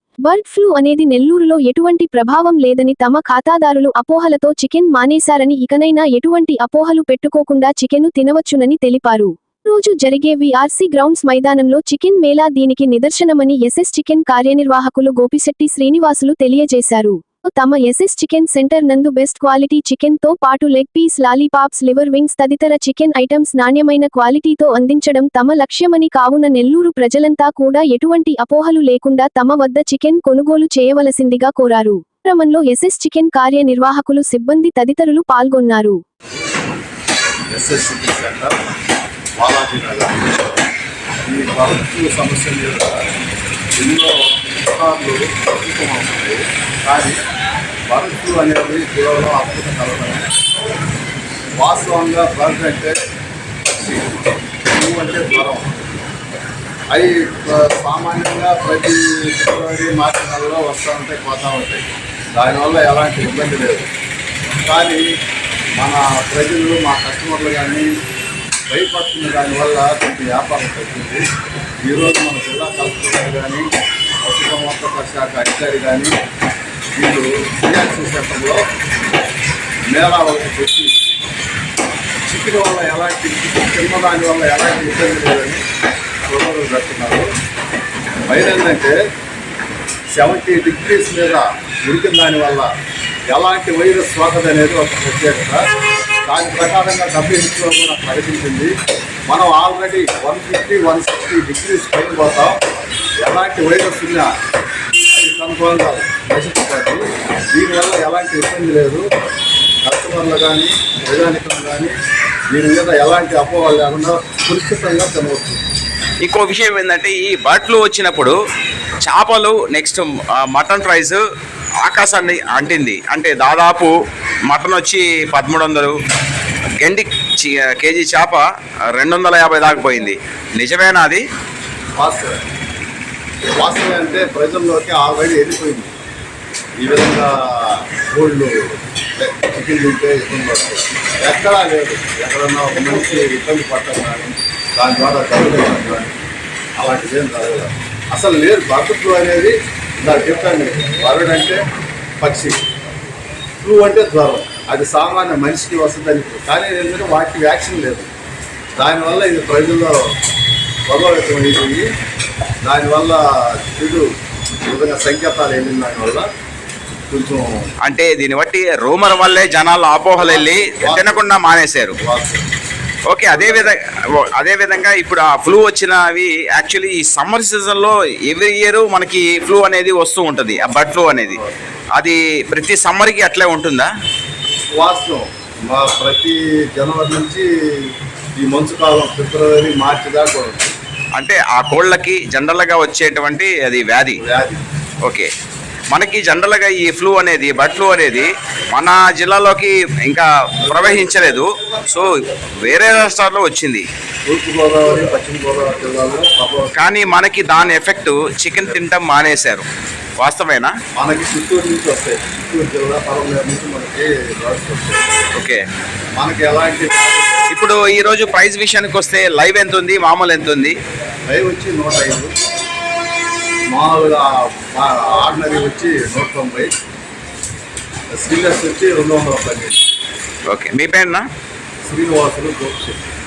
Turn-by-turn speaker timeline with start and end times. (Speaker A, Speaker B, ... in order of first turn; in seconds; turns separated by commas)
Speaker A: 0.2-36.0, Speaker B: 37.5-38.6, Speaker B: 39.4-40.4, Speaker B: 41.2-43.0, Speaker B: 43.8-47.2, Speaker B: 47.9-50.3, Speaker B: 51.6-53.0, Speaker B: 53.7-55.7, Speaker B: 56.9-63.9, Speaker B: 64.7-65.1, Speaker B: 65.8-67.9, Speaker B: 68.7-71.2, Speaker B: 71.8-73.7, Speaker B: 74.2-76.1, Speaker B: 77.0-78.6, Speaker B: 79.9-80.9, Speaker B: 82.2-85.6, Speaker B: 86.3-87.3, Speaker B: 88.3-89.0, Speaker B: 90.2-92.7, Speaker B: 93.3-95.6, Speaker B: 96.2-98.7, Speaker B: 99.3-102.6, Speaker B: 103.2-104.3, Speaker B: 105.1-109.1, Speaker B: 109.8-111.9, Speaker B: 112.5-115.6, Speaker C: 116.2-118.3, Speaker C: 119.0-121.2, Speaker C: 121.8-123.9, Speaker C: 124.5-126.0, Speaker C: 126.8-128.4, Speaker C: 128.9-131.2, Speaker B: 131.9-132.4, Speaker B: 133.6-135.9, Speaker B: 136.8-146.2, Speaker B: 146.8-151.6, Speaker B: 152.2-152.6, Speaker B: 153.6-158.1, Speaker B: 158.8-160.0, Speaker B: 160.9-161.8, Speaker B: 162.6-164.1, Speaker B: 164.7-166.3, Speaker B: 167.1-167.7, Speaker C: 167.8-171.9, Speaker B: 170.2-171.3, Speaker B: 172.0-172.5, Speaker C: 173.1-181.4, Speaker B: 181.3-181.6, Speaker C: 182.0-183.9, Speaker B: 184.8-190.7, Speaker C: 191.2-194.2, Speaker B: 194.2-194.6, Speaker C: 195.9-202.1, Speaker C: 202.6-203.8, Speaker B: 204.2-206.9, Speaker C: 206.8-209.7, Speaker C: 210.2-210.7, Speaker B: 210.9-215.1, Speaker C: 215.3-215.6, Speaker B: 216.2-217.5, Speaker C: 217.5-220.7, Speaker B: 221.3-222.3, Speaker B: 223.7-226.8, Speaker B: 228.1-229.8, Speaker C: 230.5-231.2, Speaker B: 231.8-233.0